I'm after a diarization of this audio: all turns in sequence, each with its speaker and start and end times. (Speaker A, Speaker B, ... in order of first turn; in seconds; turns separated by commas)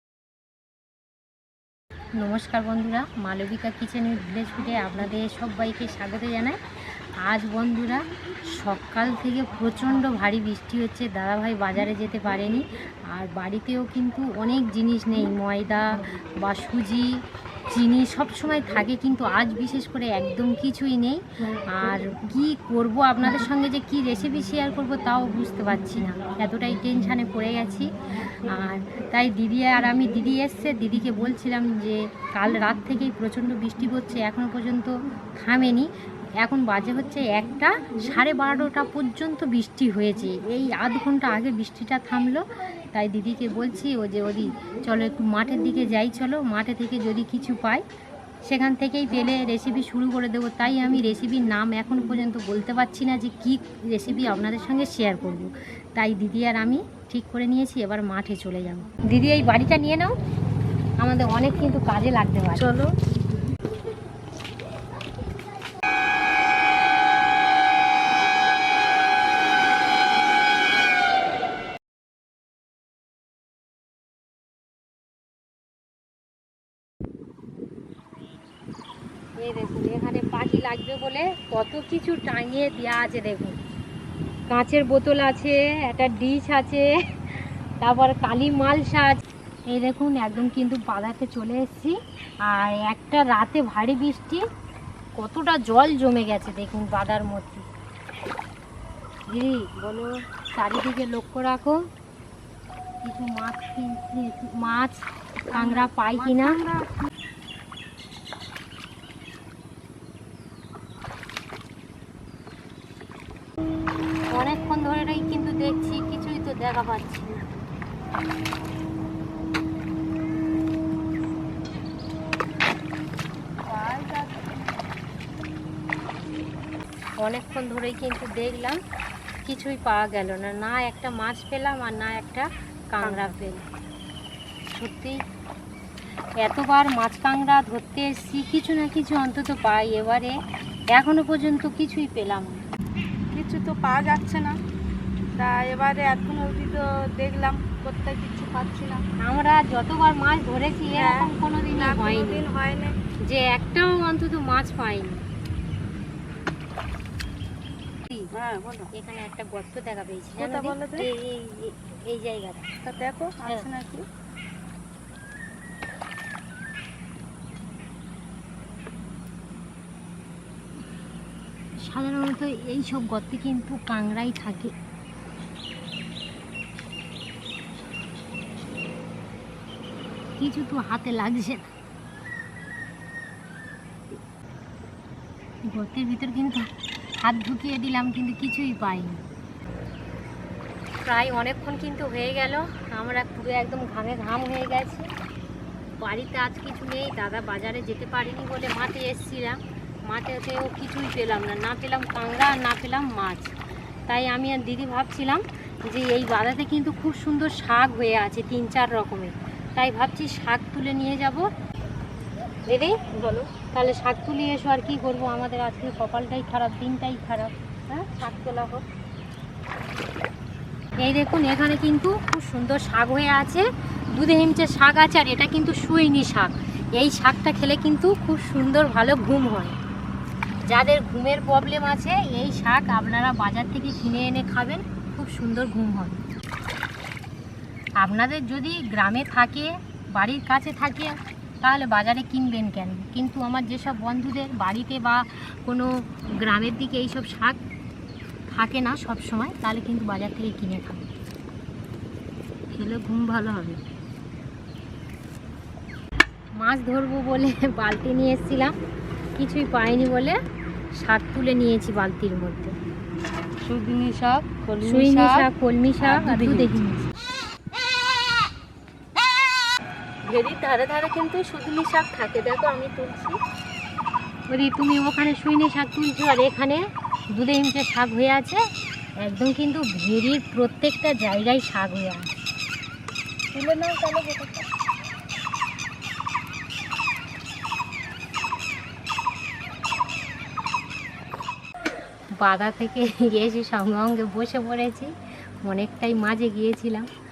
Speaker A: 2.2-6.6, Speaker A: 7.2-8.0, Speaker A: 8.5-15.9, Speaker A: 16.4-17.1, Speaker A: 17.7-21.2, Speaker A: 21.7-27.9, Speaker A: 28.4-35.9, Speaker A: 36.4-47.8, Speaker A: 48.5-60.1, Speaker A: 61.0-62.7, Speaker B: 62.5-62.9, Speaker A: 79.4-83.6, Speaker A: 84.5-92.0, Speaker A: 92.5-94.4, Speaker A: 95.2-97.6, Speaker A: 99.3-101.8, Speaker A: 103.0-106.6, Speaker B: 105.5-106.9, Speaker A: 114.3-117.4, Speaker B: 123.7-124.9, Speaker A: 127.2-128.8, Speaker A: 129.4-133.7, Speaker B: 133.0-133.3, Speaker A: 134.7-135.2, Speaker A: 136.4-140.3, Speaker A: 140.9-142.6, Speaker B: 143.3-144.6, Speaker B: 145.4-149.0, Speaker A: 149.2-152.4, Speaker B: 150.9-152.9, Speaker A: 153.2-155.2, Speaker B: 158.3-158.9, Speaker A: 158.9-162.7, Speaker B: 160.4-161.1, Speaker B: 162.8-164.0, Speaker A: 171.8-174.7, Speaker A: 180.4-181.7, Speaker A: 185.7-186.7, Speaker A: 187.2-189.2, Speaker A: 191.0-195.1, Speaker A: 196.0-203.5, Speaker A: 204.1-211.5, Speaker A: 212.7-213.0, Speaker B: 213.1-213.5, Speaker A: 213.7-217.5, Speaker B: 217.9-218.8, Speaker A: 221.0-229.8, Speaker A: 230.6-236.2, Speaker A: 238.0-247.6, Speaker A: 248.5-251.1, Speaker B: 252.7-253.8, Speaker A: 256.6-258.7, Speaker A: 259.4-260.4, Speaker A: 261.0-262.7, Speaker B: 263.6-265.5, Speaker A: 264.8-267.1, Speaker B: 266.0-266.8, Speaker B: 270.3-273.4, Speaker A: 274.5-276.8, Speaker A: 277.3-278.6, Speaker A: 279.2-282.3, Speaker B: 283.5-284.6, Speaker A: 292.4-295.1, Speaker A: 295.6-297.1